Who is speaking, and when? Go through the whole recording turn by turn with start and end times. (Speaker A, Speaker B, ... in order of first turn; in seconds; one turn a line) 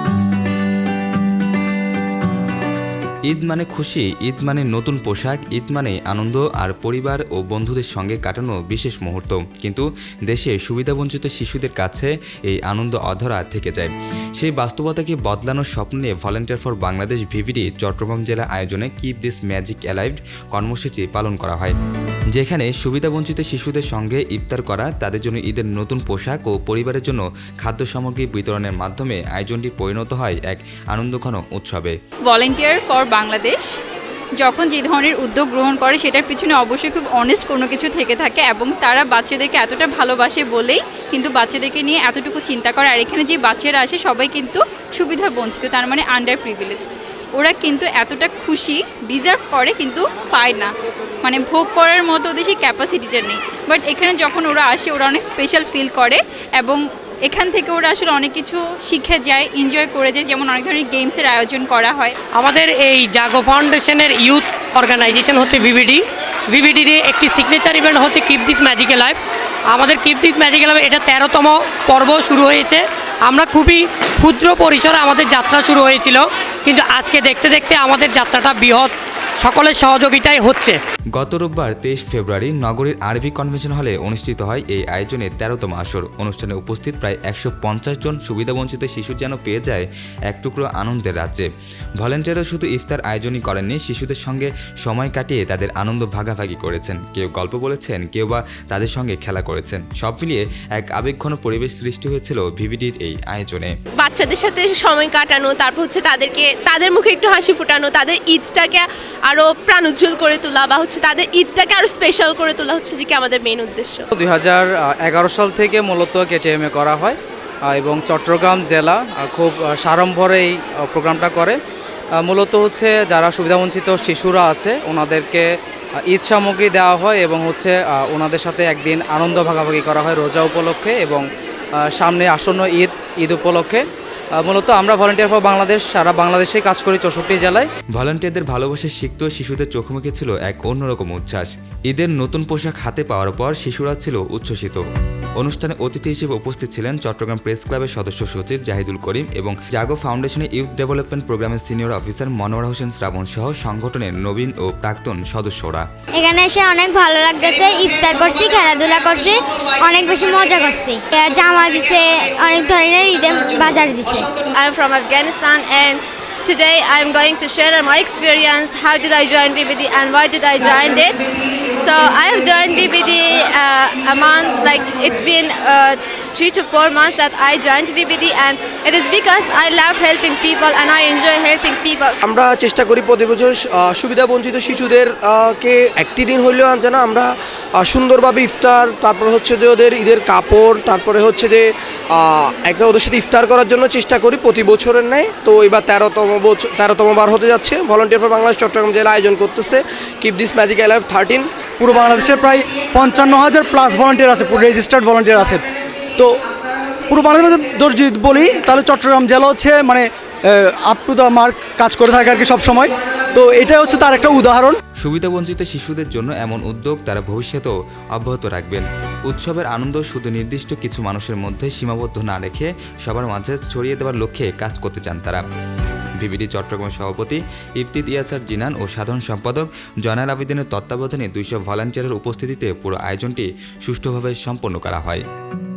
Speaker A: 3.3-21.8
Speaker A: 22.3-31.9
Speaker B: 32.3-33.6
Speaker B: 34.4-50.7
Speaker B: 51.2-62.1
Speaker C: 62.4-66.0
Speaker C: 66.5-69.2
Speaker C: 69.7-80.8
Speaker A: 81.2-91.5
Speaker A: 92.0-103.7
Speaker D: 104.0-114.0
Speaker E: 114.1-117.2
Speaker E: 117.7-121.6
Speaker E: 122.2-125.5
Speaker E: 126.1-131.2
Speaker E: 132.0-133.8
Speaker E: 134.4-137.7
Speaker A: 137.9-144.8
Speaker A: 145.4-155.8
Speaker F: 156.2-164.3
Speaker D: 164.5-171.2
Speaker D: 171.8-182.2
Speaker G: 182.2-187.3
Speaker G: 187.8-191.6
Speaker G: 192.1-201.5
Speaker H: 201.8-205.7
Speaker H: 207.1-214.8
Speaker A: 215.0-225.5
Speaker A: 226.2-235.2